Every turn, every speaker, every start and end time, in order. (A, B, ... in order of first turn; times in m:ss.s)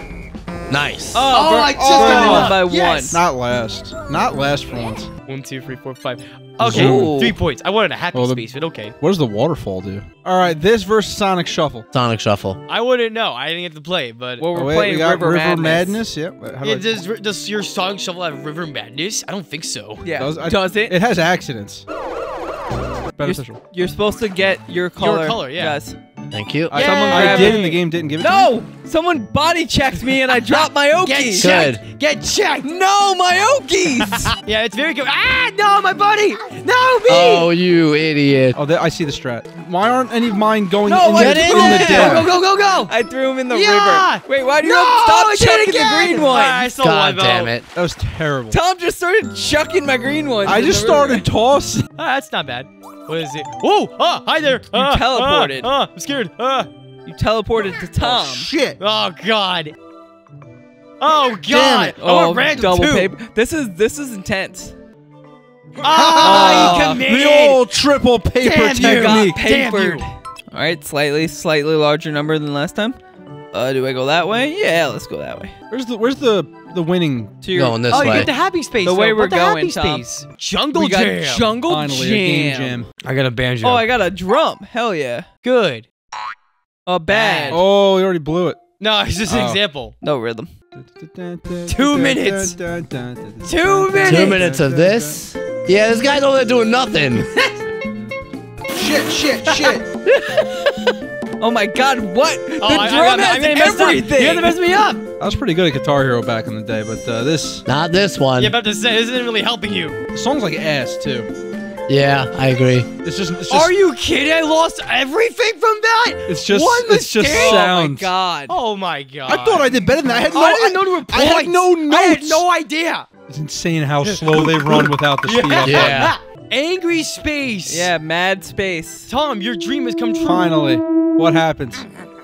0:00.7-0:01.3 A
0:01.1-0:03.2 B
0:01.3-0:03.2 C
0:01.7-0:05.1 D
0:05.3-0:08.9 C
0:06.6-0:07.2 D
0:06.6-0:07.4 B
0:08.1-0:08.4 D
0:09.0-0:11.8 D
0:11.9-0:12.6 A
0:12.7-0:14.4 C
0:14.4-0:16.0 B
0:14.5-0:16.9 D
0:16.6-0:20.0 C
0:20.0-0:21.0 B
0:20.2-0:21.8 D
0:23.2-0:23.6 D
0:23.2-0:26.0 B
0:25.0-0:25.8 C
0:26.3-0:26.8 A
0:26.7-0:28.5 D
0:26.7-0:27.7 C
0:26.7-0:31.7 B
0:30.5-0:32.7 C
0:31.4-0:31.8 A
0:32.6-0:34.3 B
0:34.0-0:37.5 C
0:37.1-0:38.6 A
0:38.5-0:42.3 D
0:40.8-0:46.7 B
0:41.1-0:42.1 A
0:41.6-0:42.9 C
0:43.5-0:47.5 C
0:46.8-0:47.6 A
0:47.7-0:48.6 D
0:48.5-0:51.2 B
0:50.4-0:51.9 D
0:52.0-0:56.7 C
0:54.7-0:55.7 B
0:57.0-0:58.5 B
0:58.0-0:58.8 D
0:58.8-0:59.7 C
1:01.0-1:03.1 C
1:01.5-1:02.0 D
1:02.0-1:04.7 B
1:05.8-1:07.6 C
1:05.9-1:09.4 D
1:06.2-1:07.0 B
1:08.4-1:10.0 C
1:08.8-1:13.0 B
1:13.5-1:15.5 B
1:15.7-1:17.4 D
1:17.4-1:20.0 B
1:17.5-1:18.3 A
1:17.9-1:21.5 C
1:20.7-1:22.8 B
1:21.6-1:22.9 D
1:23.0-1:23.8 C
1:23.6-1:25.2 B
1:25.4-1:25.9 C
1:26.8-1:27.6 B
1:27.1-1:27.6 C
1:27.5-1:28.6 D
1:28.8-1:29.9 C
1:29.3-1:29.6 D
1:30.0-1:30.5 B
1:30.7-1:35.2 D
1:31.7-1:32.6 C
1:33.4-1:34.4 C
1:34.0-1:37.3 A
1:37.2-1:37.5 C
1:38.7-1:39.9 D
1:39.5-1:39.8 C
1:40.2-1:40.6 B
1:41.4-1:44.6 B
1:42.6-1:45.0 C
1:45.2-1:47.6 D
1:47.6-1:48.5 A
1:48.4-1:50.0 C
1:50.1-1:51.3 D
1:51.9-1:52.9 A
1:53.0-1:53.7 D
1:53.5-1:57.7 C
1:56.3-1:58.1 D
1:57.2-1:58.5 B
1:58.5-1:59.7 C
1:59.3-2:02.4 D
2:00.3-2:03.1 C
2:03.3-2:06.1 D
2:04.0-2:07.9 C
2:05.6-2:06.1 A
2:07.7-2:09.1 B
2:09.1-2:10.5 C
2:10.2-2:11.8 D